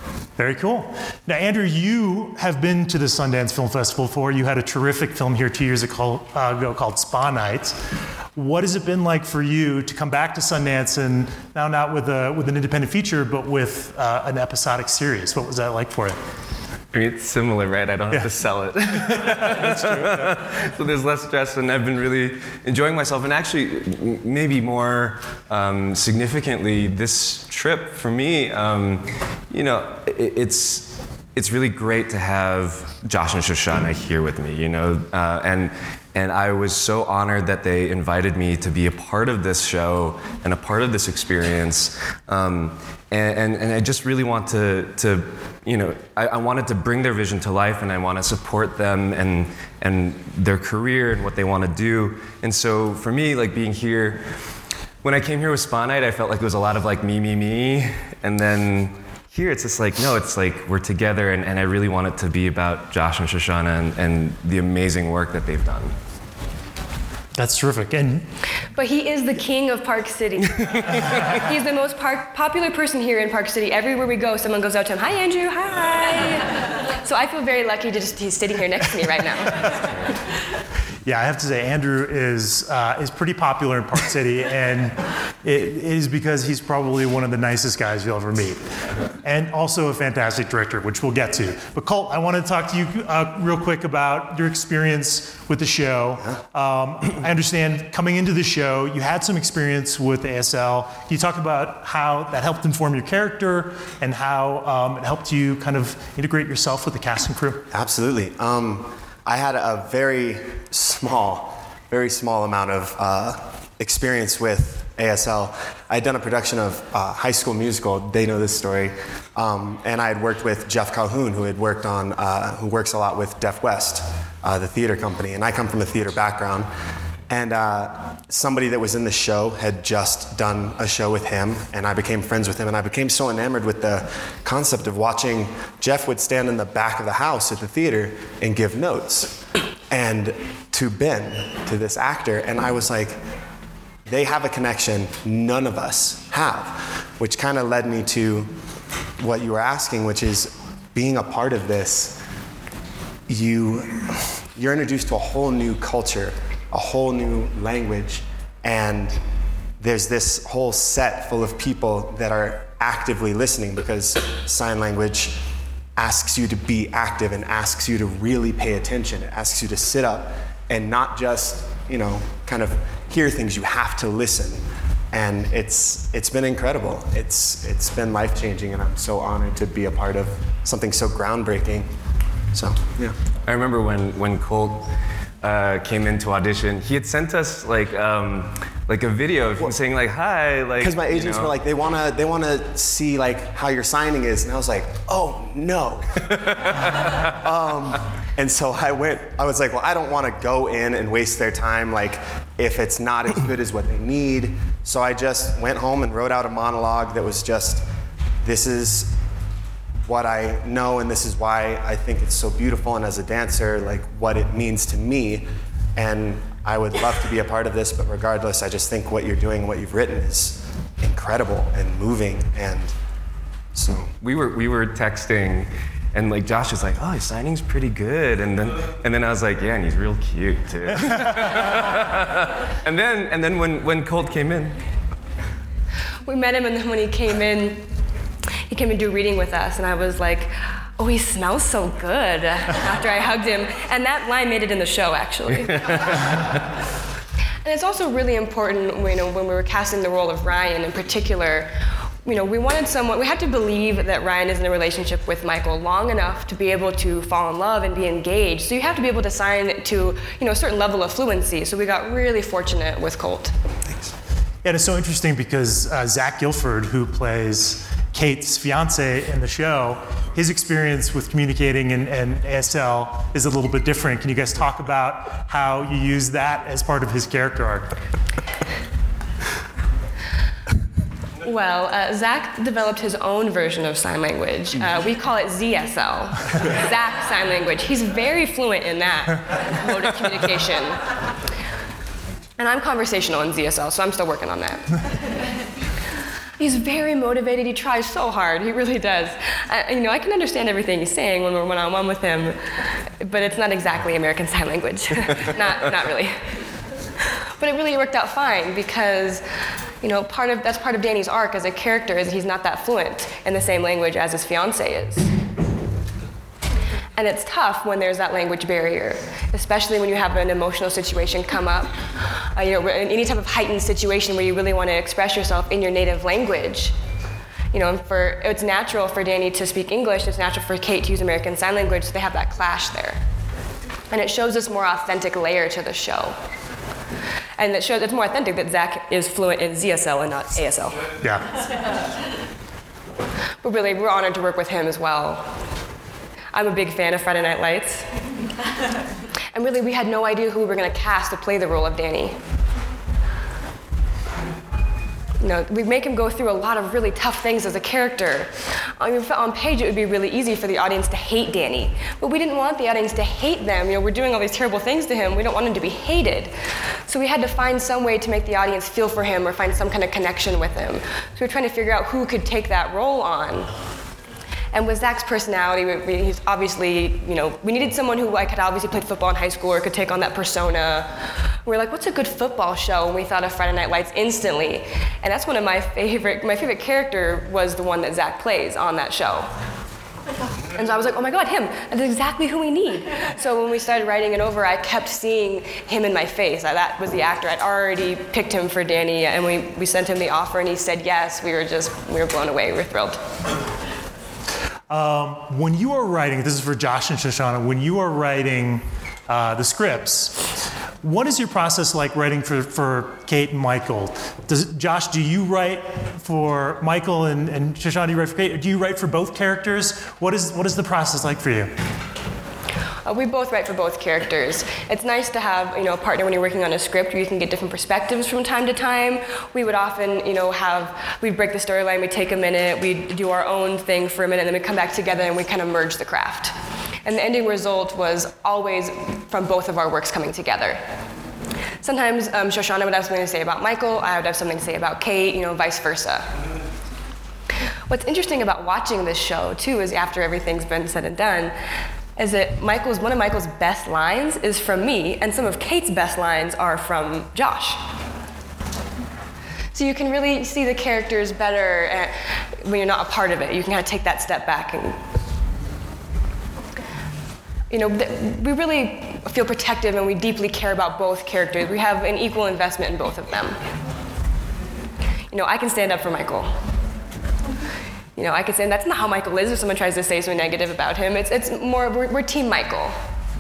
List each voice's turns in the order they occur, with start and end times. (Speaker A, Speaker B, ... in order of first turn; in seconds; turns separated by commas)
Speaker A: 0.4-7.8, Speaker A: 8.3-16.2, Speaker B: 16.9-54.2, Speaker A: 18.9-20.4, Speaker B: 55.0-65.9, Speaker A: 67.4-68.3, Speaker C: 68.7-79.9, Speaker A: 81.0-88.7, Speaker A: 89.2-107.7, Speaker D: 107.7-126.7, Speaker D: 127.3-143.2, Speaker D: 144.1-148.5, Speaker D: 149.2-152.2, Speaker D: 153.3-159.2, Speaker D: 159.8-165.4, Speaker D: 166.0-181.9, Speaker D: 182.5-183.2, Speaker B: 183.4-184.9, Speaker B: 185.4-191.5, Speaker D: 190.8-207.8, Speaker B: 196.5-197.2, Speaker D: 208.4-209.1, Speaker D: 210.1-222.9, Speaker D: 223.7-224.1, Speaker B: 224.2-234.8, Speaker C: 236.2-237.8, Speaker C: 238.7-246.3, Speaker C: 247.6-251.7, Speaker C: 252.2-263.5, Speaker A: 264.6-277.9, Speaker C: 281.4-291.0, Speaker C: 292.6-294.9, Speaker C: 296.6-302.6, Speaker C: 303.2-306.4, Speaker C: 307.6-309.4, Speaker C: 310.0-315.3, Speaker C: 317.2-326.9, Speaker C: 327.7-333.2, Speaker C: 334.1-336.4, Speaker C: 337.6-341.1, Speaker C: 343.6-345.4, Speaker C: 346.5-348.1, Speaker C: 349.5-352.4, Speaker C: 355.4-366.5, Speaker C: 367.1-373.7, Speaker C: 374.7-381.1, Speaker C: 381.6-389.5, Speaker C: 390.7-403.2, Speaker A: 404.9-421.7, Speaker C: 423.1-436.5, Speaker C: 437.1-440.8, Speaker C: 441.8-446.3, Speaker C: 447.9-451.5, Speaker C: 452.2-457.8, Speaker C: 459.7-465.0, Speaker C: 467.7-473.6, Speaker C: 475.3-476.5, Speaker C: 478.2-482.9